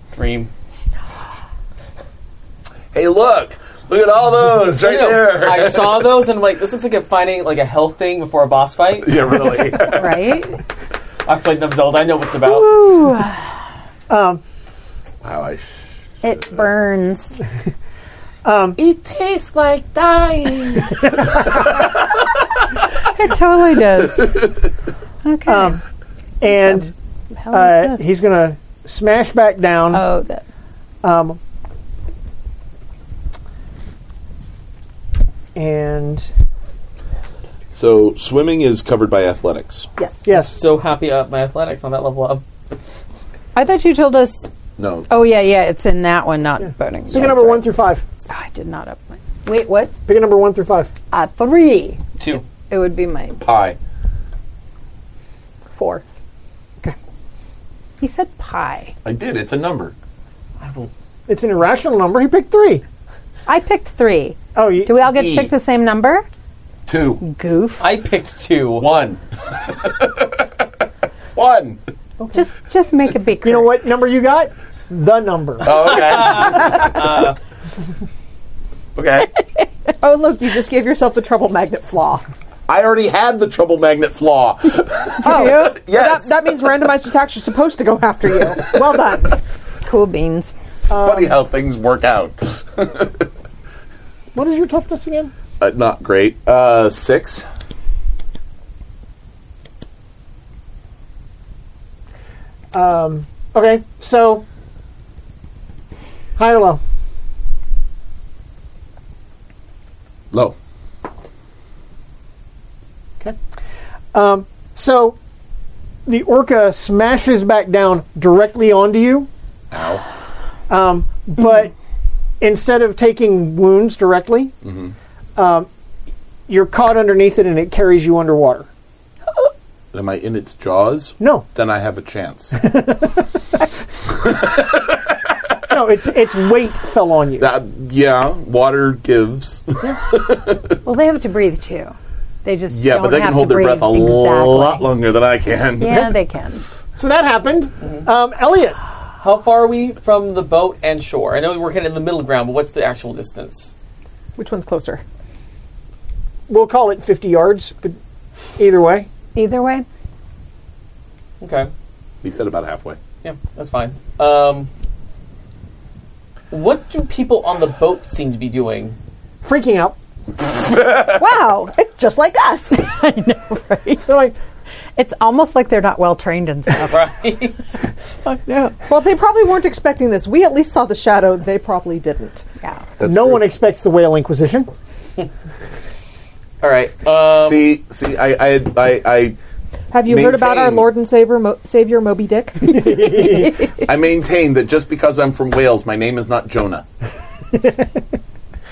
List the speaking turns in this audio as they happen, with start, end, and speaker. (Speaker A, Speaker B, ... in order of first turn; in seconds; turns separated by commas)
Speaker A: 0.1-0.5, Speaker B: 2.9-6.2, Speaker A: 4.8-9.3, Speaker B: 9.0-10.2, Speaker C: 9.9-10.6, Speaker A: 11.2-12.7, Speaker C: 12.4-13.4, Speaker D: 14.1-14.4, Speaker B: 15.2-16.5, Speaker C: 16.2-17.3, Speaker D: 18.4-18.8, Speaker B: 18.8-21.9, Speaker C: 23.0-24.5, Speaker C: 25.2-25.8, Speaker D: 25.5-25.8, Speaker D: 26.4-26.9, Speaker C: 26.5-28.0, Speaker D: 27.5-30.0, Speaker C: 29.9-30.4, Speaker D: 31.0-31.4, Speaker D: 35.5-36.3, Speaker B: 37.7-39.9, Speaker D: 40.2-40.6, Speaker A: 40.3-42.4, Speaker C: 43.5-44.5, Speaker B: 44.8-45.1, Speaker C: 45.1-47.7, Speaker D: 47.1-48.0, Speaker C: 48.3-50.0, Speaker D: 50.1-50.9, Speaker C: 51.1-52.0, Speaker C: 52.6-53.4, Speaker B: 53.4-53.8, Speaker E: 55.7-56.0, Speaker C: 58.0-58.9, Speaker B: 59.0-59.9, Speaker A: 60.6-60.9, Speaker D: 61.3-62.8, Speaker C: 63.5-66.3, Speaker D: 64.5-65.0, Speaker B: 65.1-65.5, Speaker B: 66.9-67.2, Speaker C: 67.2-67.8, Speaker A: 67.8-68.9, Speaker B: 68.8-70.5, Speaker B: 71.3-71.8, Speaker C: 72.3-73.7, Speaker D: 73.4-75.8, Speaker B: 75.6-77.0, Speaker A: 75.7-77.3, Speaker B: 79.0-79.4, Speaker E: 80.0-82.2, Speaker B: 82.7-86.7, Speaker C: 85.2-85.8, Speaker E: 85.2-89.4, Speaker C: 89.8-90.5, Speaker D: 90.9-91.3, Speaker B: 90.9-93.3, Speaker D: 94.3-95.3, Speaker B: 95.6-97.5, Speaker D: 102.7-104.5, Speaker D: 106.4-106.8, Speaker D: 114.1-115.2, Speaker D: 116.1-119.3, Speaker B: 119.7-120.0, Speaker D: 120.7-121.7, Speaker D: 122.4-124.5, Speaker B: 124.6-124.9, Speaker D: 125.4-125.7, Speaker D: 126.5-128.7, Speaker B: 129.9-132.7, Speaker D: 131.2-131.5, Speaker D: 132.6-133.2, Speaker B: 134.1-135.3, Speaker D: 135.7-137.5, Speaker B: 137.4-140.8, Speaker C: 140.8-144.9, Speaker B: 142.7-146.1, Speaker C: 145.8-146.7, Speaker D: 146.9-148.8, Speaker A: 149.2-153.7, Speaker E: 154.4-155.0, Speaker D: 156.5-158.0, Speaker D: 158.6-159.1, Speaker C: 159.3-159.8, Speaker A: 161.4-161.7, Speaker B: 162.2-163.0, Speaker A: 163.2-164.7, Speaker A: 166.5-169.0, Speaker D: 169.4-170.0, Speaker E: 171.0-172.9, Speaker C: 172.7-174.1, Speaker D: 174.1-174.3, Speaker C: 175.0-177.1, Speaker A: 176.9-177.8, Speaker E: 178.7-182.4, Speaker B: 183.0-183.5, Speaker D: 183.0-184.7, Speaker A: 186.6-187.8, Speaker B: 187.4-189.4, Speaker E: 189.9-193.3, Speaker B: 190.1-190.9, Speaker D: 192.6-193.6, Speaker B: 193.7-196.9, Speaker D: 197.6-197.9